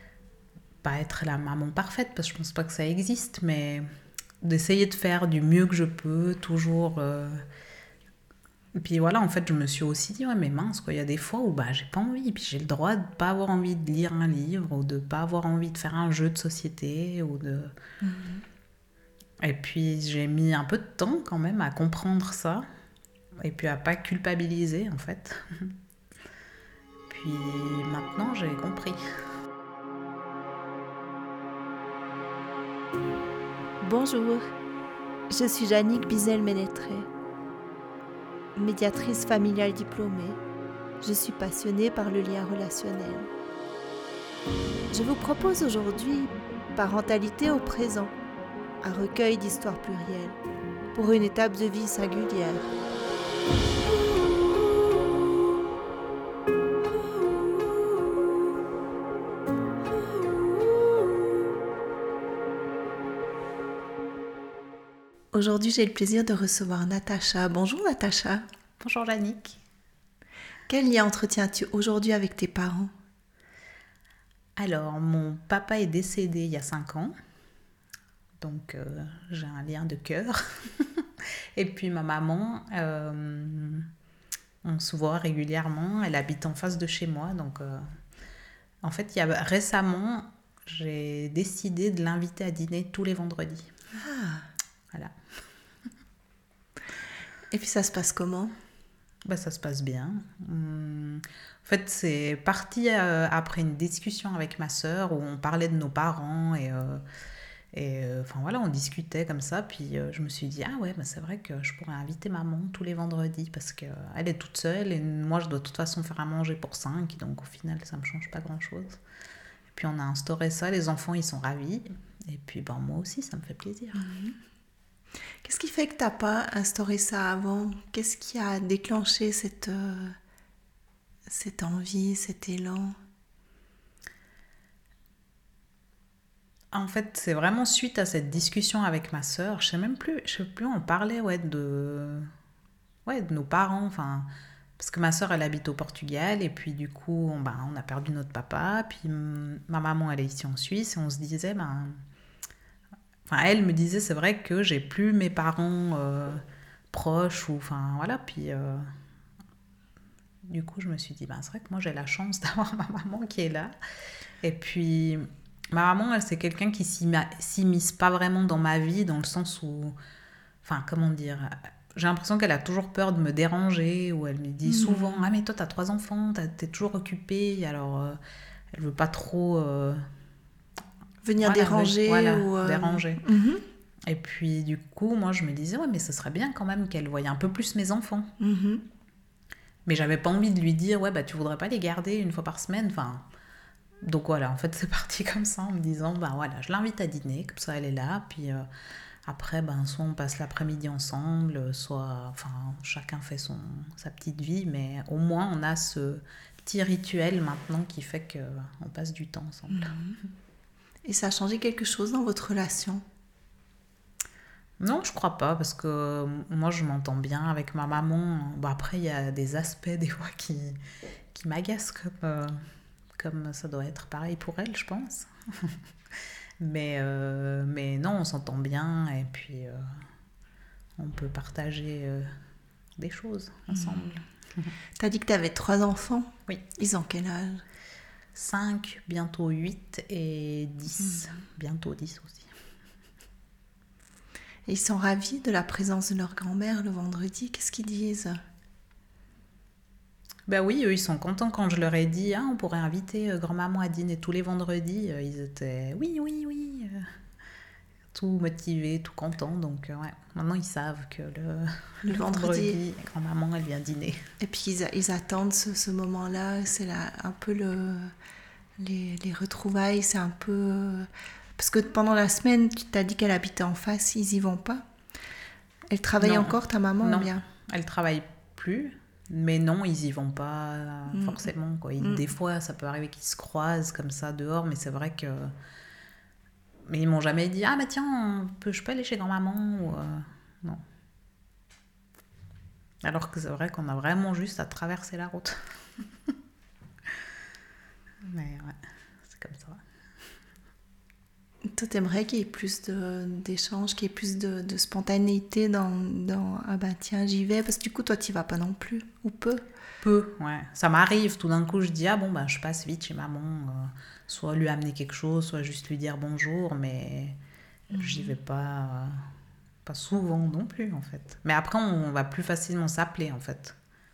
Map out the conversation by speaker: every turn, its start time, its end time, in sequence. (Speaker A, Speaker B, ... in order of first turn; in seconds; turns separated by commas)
Speaker A: 0.8-3.8, Speaker A: 4.4-7.4, Speaker A: 8.7-17.7, Speaker B: 18.0-18.4, Speaker A: 19.4-22.6, Speaker A: 23.4-25.7, Speaker A: 27.1-29.0, Speaker B: 33.8-34.4, Speaker B: 35.3-37.1, Speaker B: 38.5-40.4, Speaker B: 41.0-43.3, Speaker B: 44.9-48.1, Speaker B: 48.8-50.4, Speaker B: 50.9-52.8, Speaker B: 65.3-68.4, Speaker A: 68.8-69.6, Speaker B: 70.7-72.9, Speaker A: 74.6-77.1, Speaker A: 78.4-83.8, Speaker A: 84.6-87.9, Speaker A: 88.8-93.7, Speaker B: 94.0-94.5, Speaker B: 97.5-98.5, Speaker A: 99.2-107.0, Speaker A: 107.7-119.0, Speaker A: 119.7-124.1, Speaker B: 124.0-124.3, Speaker B: 125.4-130.1, Speaker B: 131.3-132.9, Speaker A: 136.7-142.3, Speaker A: 143.1-144.3, Speaker A: 144.8-152.0, Speaker A: 153.3-158.9, Speaker A: 160.5-163.7, Speaker A: 164.4-169.9, Speaker A: 170.6-178.2, Speaker B: 174.6-175.3, Speaker A: 178.7-180.0, Speaker B: 181.2-183.6, Speaker A: 181.4-183.2, Speaker A: 184.1-188.3, Speaker B: 188.4-188.8, Speaker A: 189.8-193.2, Speaker A: 194.0-198.7, Speaker A: 199.2-209.9, Speaker B: 209.7-210.2, Speaker B: 211.0-213.0, Speaker A: 214.8-220.8, Speaker A: 221.3-222.6, Speaker A: 223.2-225.8, Speaker A: 226.6-229.8, Speaker A: 231.0-232.3, Speaker A: 233.0-234.7, Speaker B: 233.7-234.1, Speaker B: 235.0-237.6, Speaker A: 238.3-242.5, Speaker B: 244.7-248.3, Speaker A: 250.5-257.0, Speaker A: 258.1-264.2, Speaker B: 262.1-262.8, Speaker B: 264.4-268.1, Speaker B: 268.8-274.8, Speaker B: 275.9-277.4, Speaker A: 276.2-285.5, Speaker B: 281.1-282.2, Speaker A: 286.9-290.8, Speaker A: 293.0-295.6, Speaker A: 298.2-299.8, Speaker B: 301.7-309.6, Speaker A: 310.0-317.4, Speaker B: 317.9-318.4, Speaker A: 317.9-319.2, Speaker A: 319.9-323.8